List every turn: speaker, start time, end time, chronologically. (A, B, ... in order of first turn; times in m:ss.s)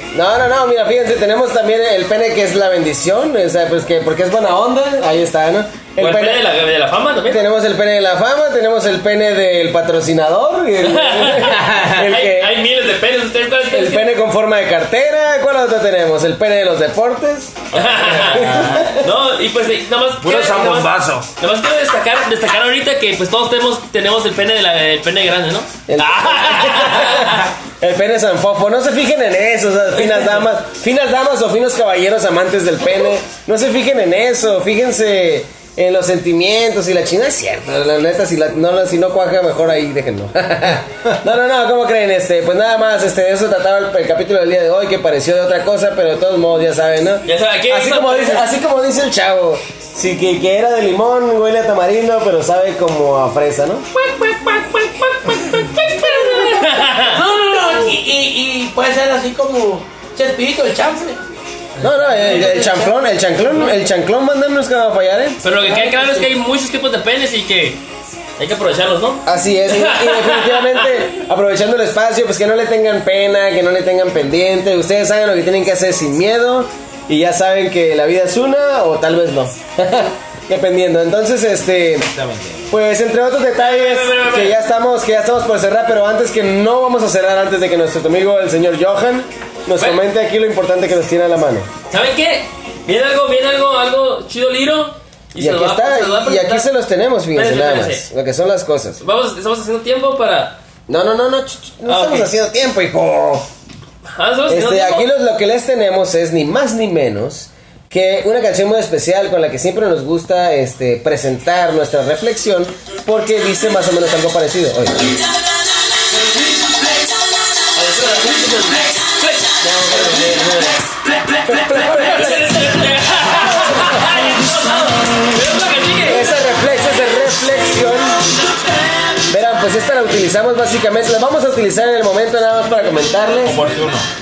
0:00.1-0:06.4 A
0:06.0-0:07.4 B
0:07.3-0:12.6 A
0:10.8-0:14.1 B
0:13.7-0:19.1 A
0:17.7-0:27.5 B
0:18.0-0:18.9 C
0:20.2-0:21.3 C
0:25.9-0:53.9 A
0:47.3-0:48.5 B
0:53.9-0:57.2 B
0:57.0-1:01.2 D
1:01.8-1:02.7 B
1:01.8-1:05.5 A
1:02.1-1:02.9 D
1:05.4-1:07.8 B
1:05.6-1:06.2 D
1:08.4-1:11.0 B
1:09.3-1:22.1 A
1:22.0-1:22.7 C
1:22.7-1:31.7 A
1:23.6-1:24.6 B
1:31.9-1:36.7 B
1:35.4-1:39.0 A
1:37.3-1:38.1 B
1:39.0-1:40.6 B
1:40.9-1:43.5 A
1:41.9-1:42.3 B
1:44.2-1:45.1 B
1:44.5-1:55.1 A
1:57.7-2:00.9 B
1:59.9-2:00.8 A
2:01.4-2:06.3 B
2:01.5-2:02.6 D
2:01.7-2:02.2 A
2:03.7-2:04.5 D
2:06.0-2:08.2 A
2:09.3-2:13.6 A
2:13.4-2:14.1 C